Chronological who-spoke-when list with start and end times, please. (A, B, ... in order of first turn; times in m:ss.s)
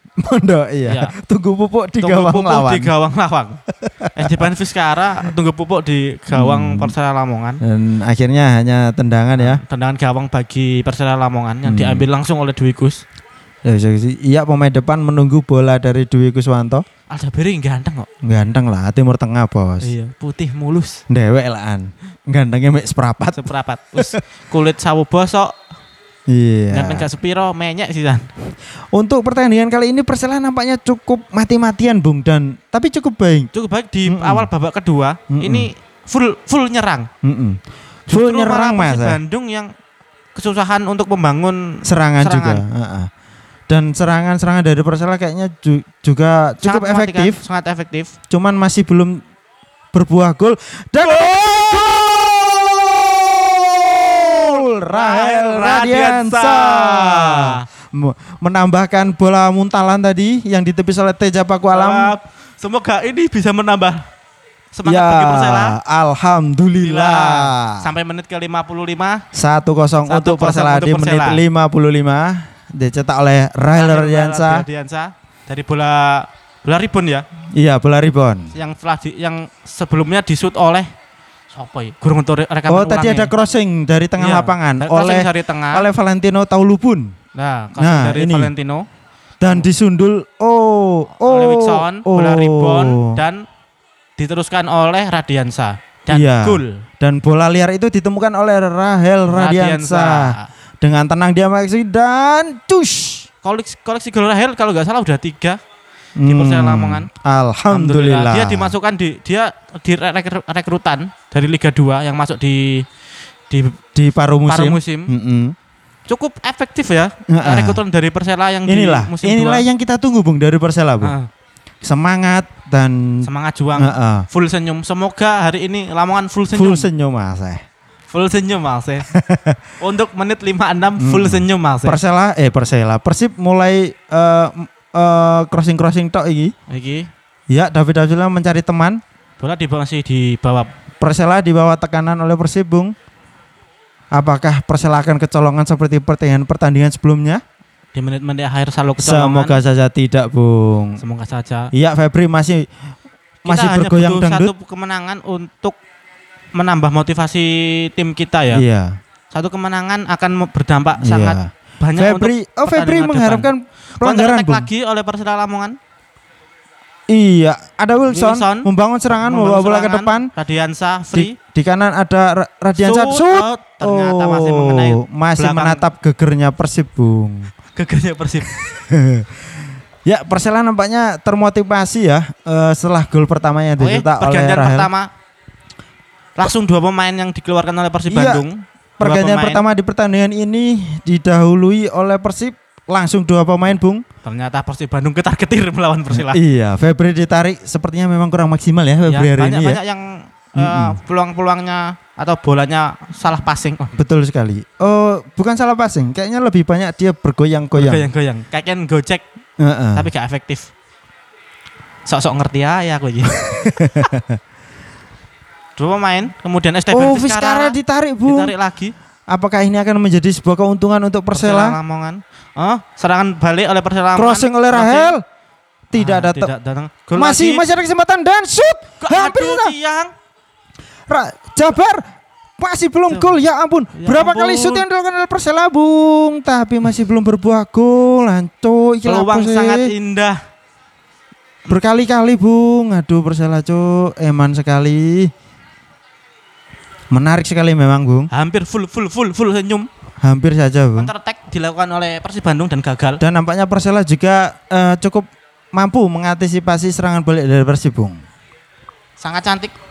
0:00.2-0:02.9 A
0:00.9-0:01.1 B
0:02.0-0:03.6 B
0:03.7-0:04.5 A
0:04.2-0:07.6 B
0:06.3-0:07.0 A
0:07.6-0:09.6 A
0:09.4-0:13.0 B
0:11.6-0:12.1 A
0:13.6-0:16.8 A
0:17.1-0:18.1 B
0:18.2-0:19.9 A
0:19.8-0:21.0 B
0:21.1-0:24.2 A
0:23.3-0:25.5 B
0:26.3-0:27.1 A
0:26.7-0:28.3 B
0:28.9-0:33.5 A
0:33.5-0:37.1 B
0:34.1-0:34.5 A
0:35.3-0:35.7 A
0:37.2-0:39.2 A
0:38.1-0:39.7 B
0:40.4-0:42.6 B
0:41.8-0:43.1 A
0:43.7-0:47.4 A
0:46.6-0:48.1 B
0:48.3-0:49.2 A
0:49.9-1:02.1 A
0:51.0-0:51.8 B
0:54.0-0:57.6 B
1:01.7-1:04.1 B
1:04.7-1:05.8 B
1:04.8-1:07.9 A
1:06.8-1:09.2 B
1:09.3-1:14.7 A
1:10.1-1:11.4 B
1:13.7-1:17.2 B
1:17.5-1:18.5 A
1:18.5-1:20.9 B
1:21.5-1:23.3 B
1:22.7-1:27.1 A
1:24.2-1:25.9 B
1:27.4-1:28.9 B
1:27.8-1:28.5 A
1:29.4-1:33.2 A
1:31.2-1:33.4 B
1:34.2-1:36.8 B
1:36.1-1:43.3 A
1:39.3-1:40.5 B
1:43.4-1:45.6 B
1:46.2-1:48.8 A
1:46.3-1:47.1 B
1:47.7-1:52.8 B
1:53.5-1:53.8 B
1:54.0-1:55.6 A
1:54.5-1:55.1 B
1:56.1-1:59.7 B
1:57.3-1:57.8 A
1:58.7-2:01.2 A
2:01.0-2:01.3 B
2:01.8-2:04.3 A
2:03.2-2:06.9 B
2:06.5-2:07.6 A
2:08.1-2:09.1 B
2:09.1-2:09.6 A
2:09.8-2:12.0 B
2:11.0-2:16.5 A
2:16.7-2:17.1 B
2:17.5-2:19.0 A
2:19.4-2:20.7 B
2:21.0-2:22.9 A
2:24.1-2:27.4 A
2:28.0-2:29.6 B
2:29.0-2:31.0 A
2:31.0-2:31.7 B
2:31.7-2:32.7 A
2:33.4-2:35.8 B
2:33.5-2:34.5 A
2:36.6-2:38.6 B
2:38.5-2:39.0 A
2:39.3-2:45.8 B
2:41.0-2:44.7 A
2:47.1-2:50.3 A
2:48.1-2:51.4 B
2:51.1-2:57.5 A
2:52.8-2:55.9 B
2:57.7-2:58.5 B
2:58.5-2:59.4 A
3:00.0-3:04.9 A
3:03.8-3:05.1 B
3:06.4-3:09.6 B
3:08.1-3:08.4 A
3:09.0-3:14.0 A
3:14.2-3:16.4 B
3:16.1-3:19.8 A
3:19.1-3:24.0 B
3:20.6-3:21.0 A
3:24.0-3:28.0 A
3:27.8-3:29.2 B
3:29.6-3:30.1 A
3:30.0-3:30.7 B
3:32.1-3:34.1 B
3:33.3-3:34.4 A
3:35.8-3:38.9 B
3:36.9-3:38.5 A
3:39.3-3:41.8 A
3:41.3-3:45.2 B
3:44.2-3:45.2 A
3:45.9-3:46.5 A
3:45.9-3:47.6 B
3:47.2-3:49.8 A
3:49.0-3:50.1 B
3:51.1-3:52.0 A
3:52.6-3:59.9 A
3:53.1-3:53.4 B
3:53.9-3:54.8 B
3:59.0-4:00.4 B
4:01.7-4:05.3 A
4:07.1-4:08.3 A
4:08.3-4:09.9 B
4:10.2-4:11.1 A
4:11.0-4:13.2 B
4:13.2-4:18.2 A
4:19.2-4:19.7 B